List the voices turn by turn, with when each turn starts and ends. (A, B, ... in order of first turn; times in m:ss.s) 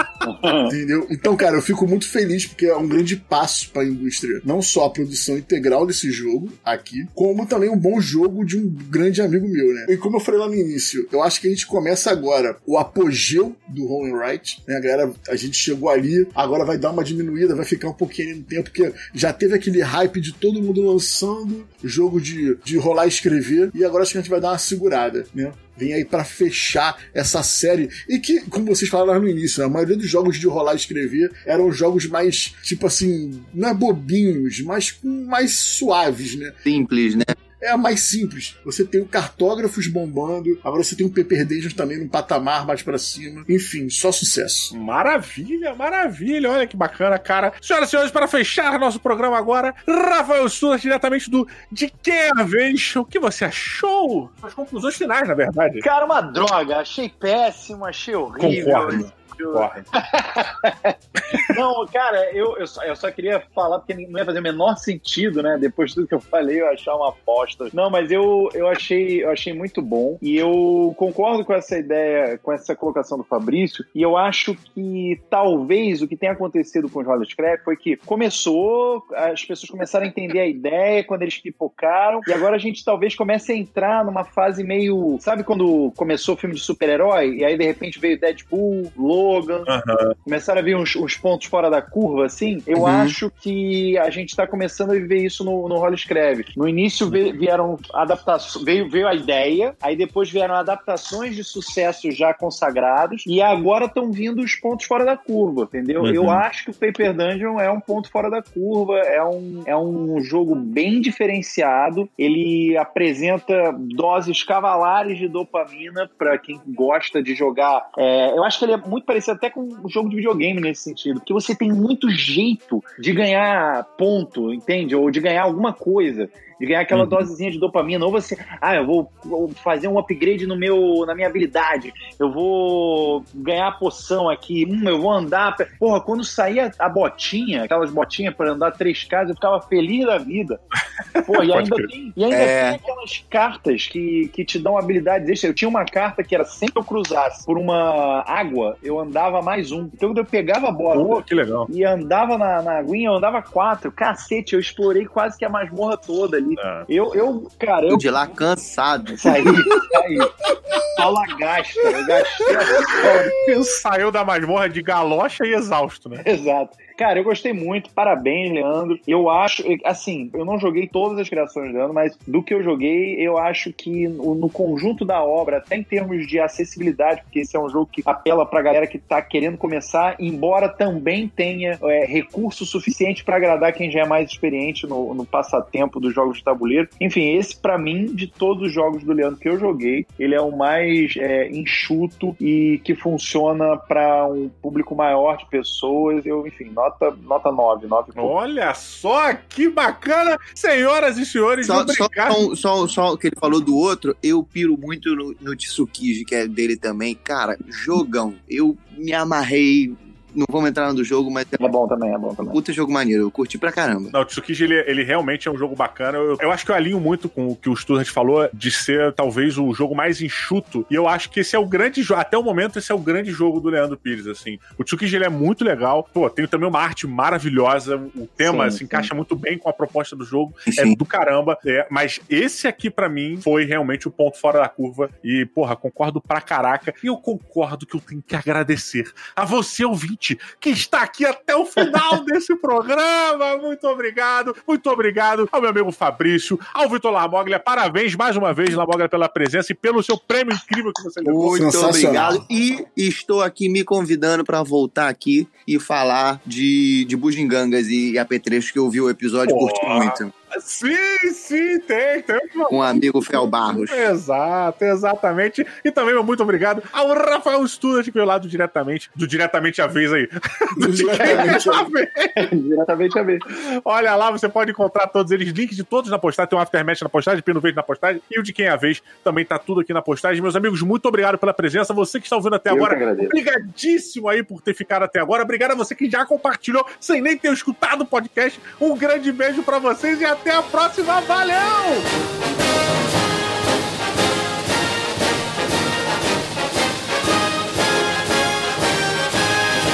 0:00.2-0:00.7 A
0:00.7-0:36.6 B
0:36.7-0:37.3 C
0:37.6-0:44.7 B
0:44.7-0:55.8 D
0:55.8-1:29.7 A
0:58.4-0:59.8 D
1:01.2-1:01.5 D
1:29.7-1:30.2 D
1:30.3-2:20.6 A
1:32.8-1:33.2 C
1:46.0-1:46.4 D
2:06.9-2:07.2 D
2:21.2-2:21.9 D
2:21.2-2:38.1 A
2:22.3-2:22.8 C
2:30.9-2:31.7 D
2:36.6-2:36.9 D
2:37.9-2:39.6 C
2:39.2-2:40.3 A
2:40.9-2:43.4 A
2:42.9-2:46.2 D
2:46.2-3:18.3 A
3:18.2-3:22.4 D
3:21.6-3:31.7 C
3:31.6-3:32.6 A
3:32.5-3:34.1 C
3:34.1-4:12.1 D
3:48.4-3:49.1 A
3:50.7-3:51.0 C
4:11.2-4:20.3 C
4:11.6-4:12.4 B
4:19.5-4:32.4 D
4:22.7-4:24.1 C
4:30.8-4:31.9 B
4:32.4-4:33.4 A
4:33.5-4:52.1 D
4:42.7-4:43.4 A